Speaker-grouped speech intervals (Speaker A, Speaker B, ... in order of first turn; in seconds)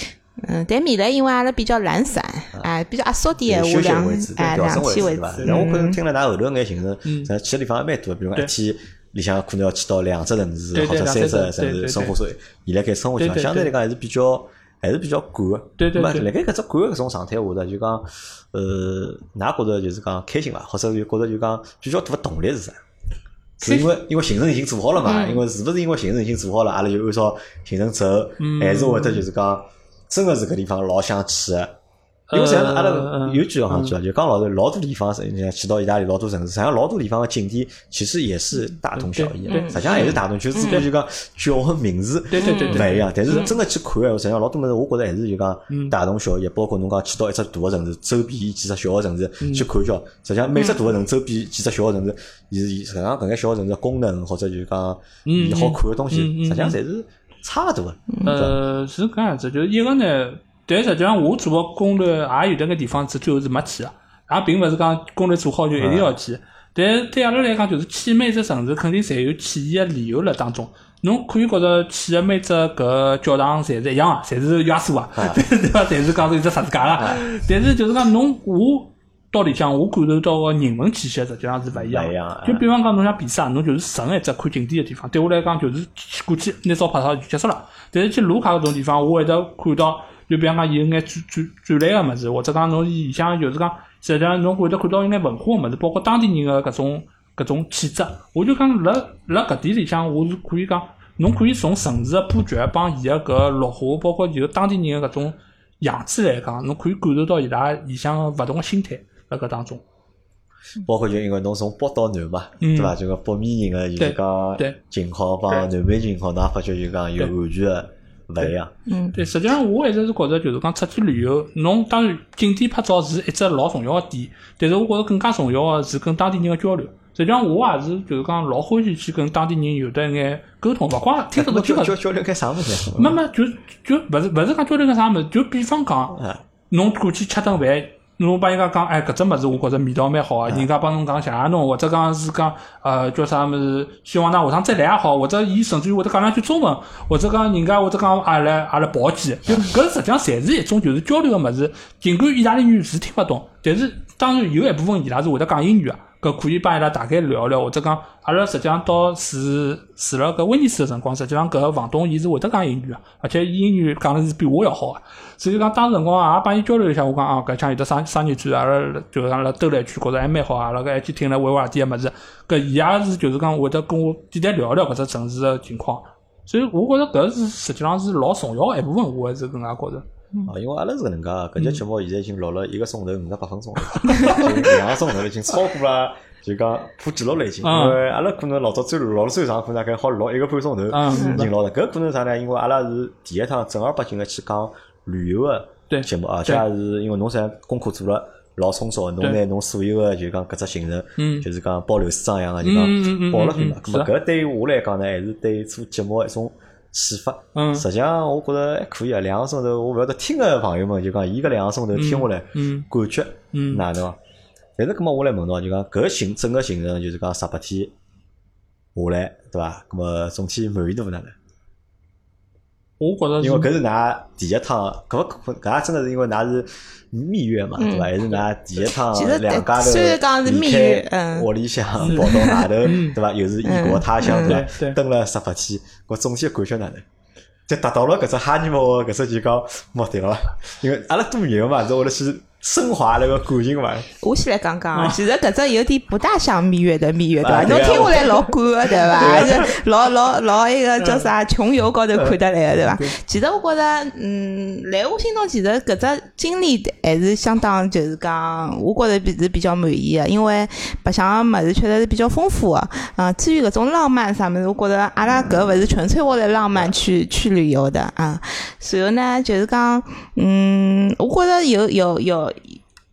Speaker A: 0.4-6.0, 25.0-25.4, 39.5-40.8, 42.4-43.5, 118.9-119.1, 191.2-191.4, 227.8-228.1, 229.1-231.5, 232.2-232.7, 233.7-234.6, 244.2-272.8
Speaker B: 3.4-22.8, 23.6-31.7, 32.3-58.6, 65.8-66.1, 81.7-82.6, 110.8-118.7, 131.3-133.2, 136.1-136.4, 180.5-214.2, 214.8-217.9, 218.9-221.3, 223.4-237.0, 237.7-244.1, 247.4-249.8
Speaker C: 5.4-5.7, 7.0-7.3, 10.7-12.2, 13.2-13.7, 15.8-16.3, 23.6-23.9, 28.4-29.2, 32.3-33.9, 39.0-40.9, 42.3-43.5, 45.7-46.0, 49.4-49.7, 55.3-56.8, 58.2-109.8, 112.6-113.0, 114.0-114.8, 119.1-131.9, 133.0-136.2, 136.7-180.1, 181.6-181.8, 184.1-184.6, 187.6-188.0, 190.9-191.5, 195.9-196.6, 201.2-201.5, 202.6-204.1, 207.6-207.8, 211.9-212.9, 213.5-213.8, 223.0-223.7, 232.0-233.2, 234.3-235.0, 244.9-245.2, 251.0-251.3